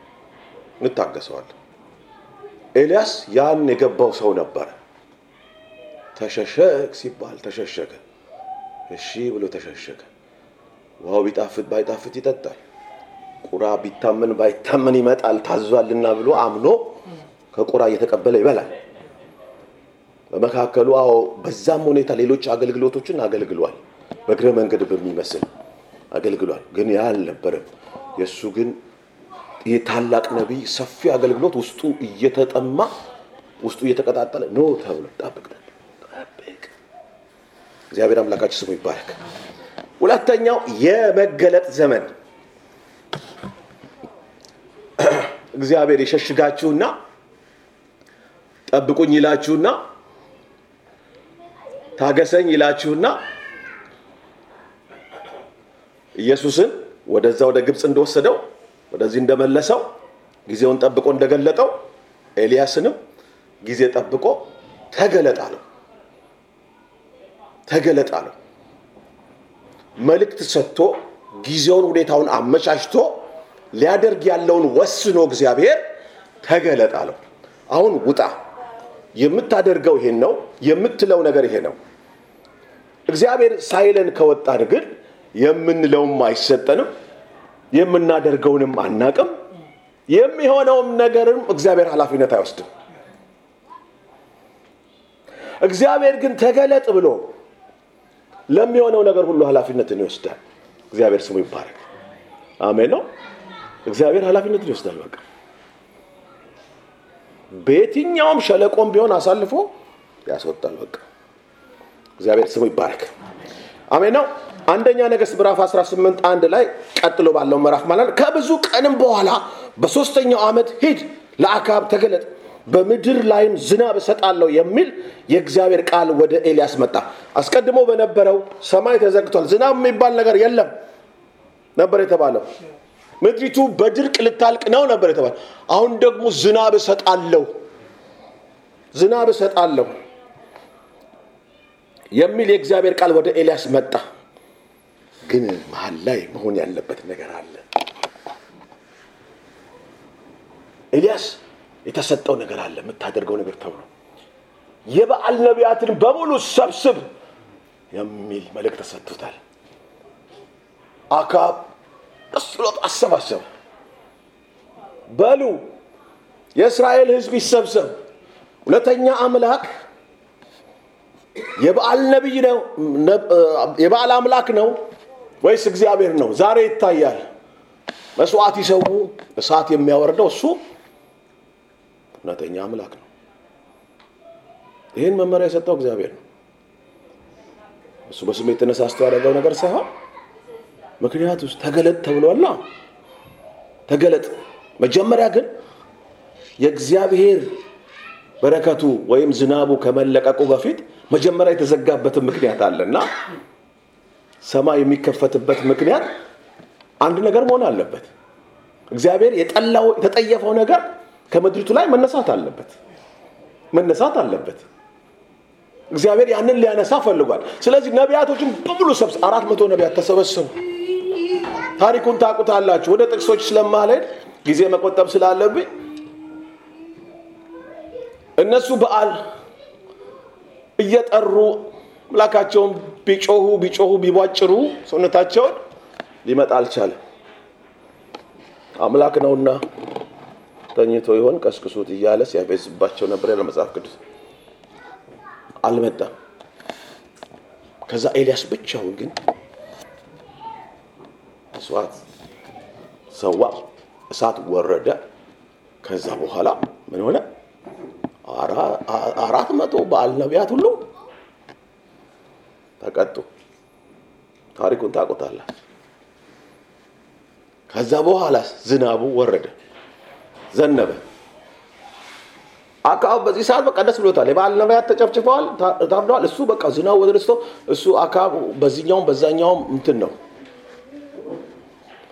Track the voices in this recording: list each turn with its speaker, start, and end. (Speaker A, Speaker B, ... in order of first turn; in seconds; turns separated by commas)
Speaker A: 0.8-1.5, Speaker A: 2.7-4.7, Speaker A: 6.2-8.0, Speaker A: 8.9-10.1, Speaker A: 11.0-12.6, Speaker A: 13.4-17.0, Speaker A: 17.5-18.7, Speaker A: 20.3-25.5, Speaker A: 26.1-28.8, Speaker A: 29.6-32.9, Speaker A: 33.6-36.7, Speaker A: 37.9-39.2, Speaker A: 40.0-42.1, Speaker A: 45.0-47.0, Speaker A: 48.7-49.8, Speaker A: 52.0-53.2, Speaker A: 56.1-59.9, Speaker A: 60.5-61.8, Speaker A: 62.4-63.0, Speaker A: 63.6-65.6, Speaker A: 67.7-68.3, Speaker A: 70.0-75.8, Speaker A: 76.4-77.2, Speaker A: 77.7-78.3, Speaker A: 79.2-81.8, Speaker A: 83.1-86.9, Speaker A: 87.7-89.3, Speaker A: 90.1-92.7, Speaker A: 95.6-97.3, Speaker A: 98.5-100.4, Speaker A: 100.9-101.8, Speaker A: 102.6-103.0, Speaker A: 103.8-105.2, Speaker A: 107.5-109.7, Speaker A: 110.2-111.0, Speaker A: 112.2-113.1, Speaker A: 113.9-130.7, Speaker A: 131.8-132.4, Speaker A: 133.2-137.5, Speaker A: 138.9-139.9, Speaker A: 142.1-144.0, Speaker A: 145.2-147.6, Speaker A: 150.9-153.9, Speaker A: 154.9-157.1, Speaker A: 157.9-159.4, Speaker A: 161.1-161.7, Speaker A: 162.3-163.4, Speaker A: 165.1-165.6, Speaker A: 166.5-168.0, Speaker A: 168.7-169.7, Speaker A: 171.5-174.8, Speaker A: 175.4-177.2, Speaker A: 178.2-180.6, Speaker A: 182.2-183.0, Speaker A: 184.9-186.2, Speaker A: 188.1-189.9, Speaker A: 191.0-192.6, Speaker A: 193.9-195.5, Speaker A: 196.6-197.6, Speaker A: 198.4-203.1, Speaker A: 204.4-206.1, Speaker A: 207.0-208.1, Speaker A: 208.9-212.8, Speaker A: 213.7-214.6, Speaker A: 215.9-220.6, Speaker A: 221.8-225.7, Speaker A: 228.4-229.2, Speaker A: 230.8-235.6, Speaker A: 236.2-237.0, Speaker A: 238.8-239.6, Speaker A: 240.7-244.0, Speaker A: 245.6-246.1, Speaker A: 247.9-249.2, Speaker A: 251.5-252.0, Speaker A: 253.1-255.0, Speaker A: 255.8-257.2, Speaker A: 258.2-260.9, Speaker A: 262.8-263.3, Speaker A: 264.6-265.5, Speaker A: 267.7-269.5, Speaker A: 270.5-271.0, Speaker A: 272.8-280.1